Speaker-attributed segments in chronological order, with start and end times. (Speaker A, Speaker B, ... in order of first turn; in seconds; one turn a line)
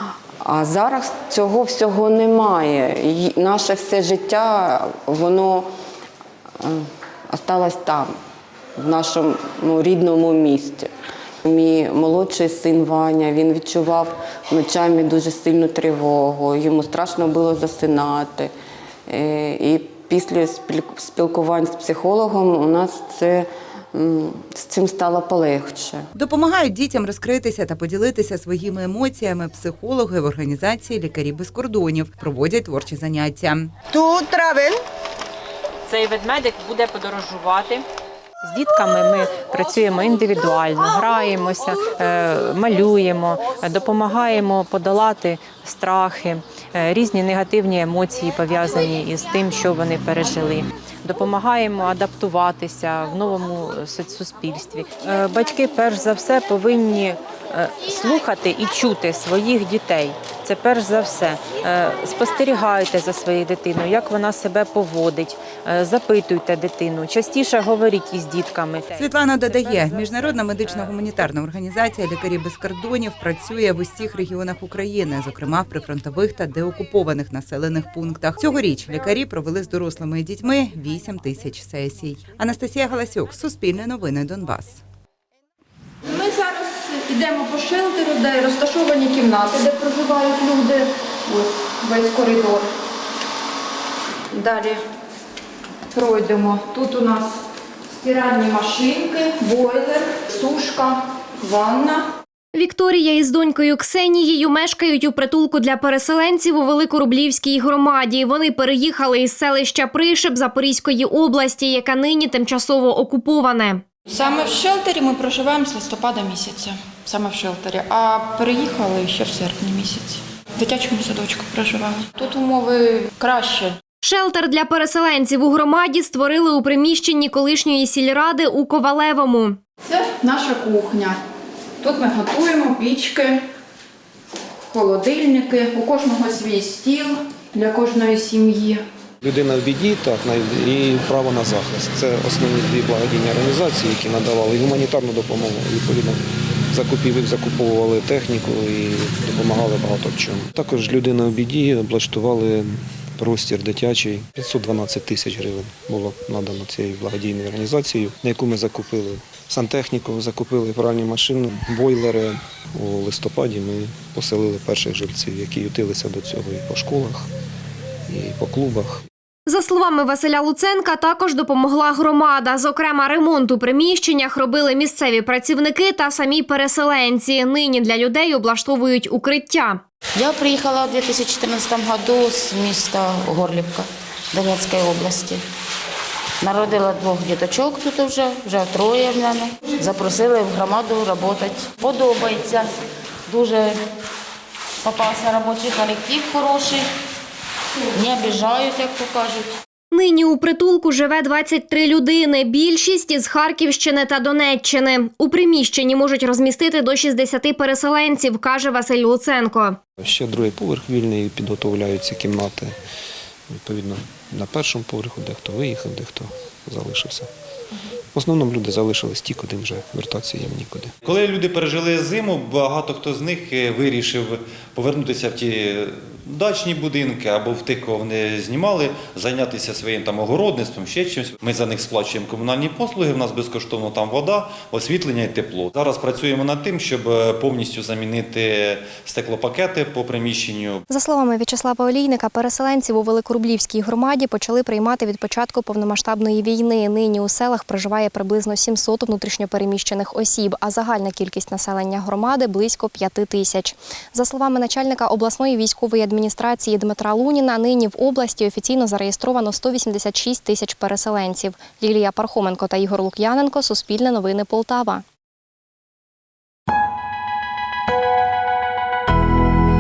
Speaker A: 0.4-5.7
Speaker A: 6.6-8.2
Speaker A: 8.8-10.9
Speaker A: 11.4-18.5
Speaker A: 19.1-26.1
Speaker B: 26.2-33.8
Speaker C: 35.9-37.8
Speaker C: 38.5-69.0
Speaker B: 68.9-84.8
Speaker C: 69.6-70.7
Speaker D: 87.3-87.7
Speaker D: 88.9-89.9
Speaker D: 91.3-92.6
Speaker D: 96.1-97.0
Speaker E: 102.5-113.8
Speaker D: 114.2-123.7
Speaker E: 124.0-129.6
Speaker D: 129.9-131.1
Speaker D: 131.8-133.4
Speaker D: 134.7-138.8
Speaker F: 139.2-167.3
Speaker F: 168.1-169.0
Speaker E: 169.5-179.8
Speaker G: 180.2-185.4
Speaker G: 186.4-192.7
Speaker G: 193.3-193.7
Speaker G: 194.8-196.8
Speaker G: 197.9-199.5
Speaker E: 199.9-209.8
Speaker F: 210.0-212.8
Speaker F: 213.5-217.3
Speaker F: 218.1-220.9
Speaker H: 221.1-225.5
Speaker H: 226.4-240.8
Speaker I: 240.9-265.0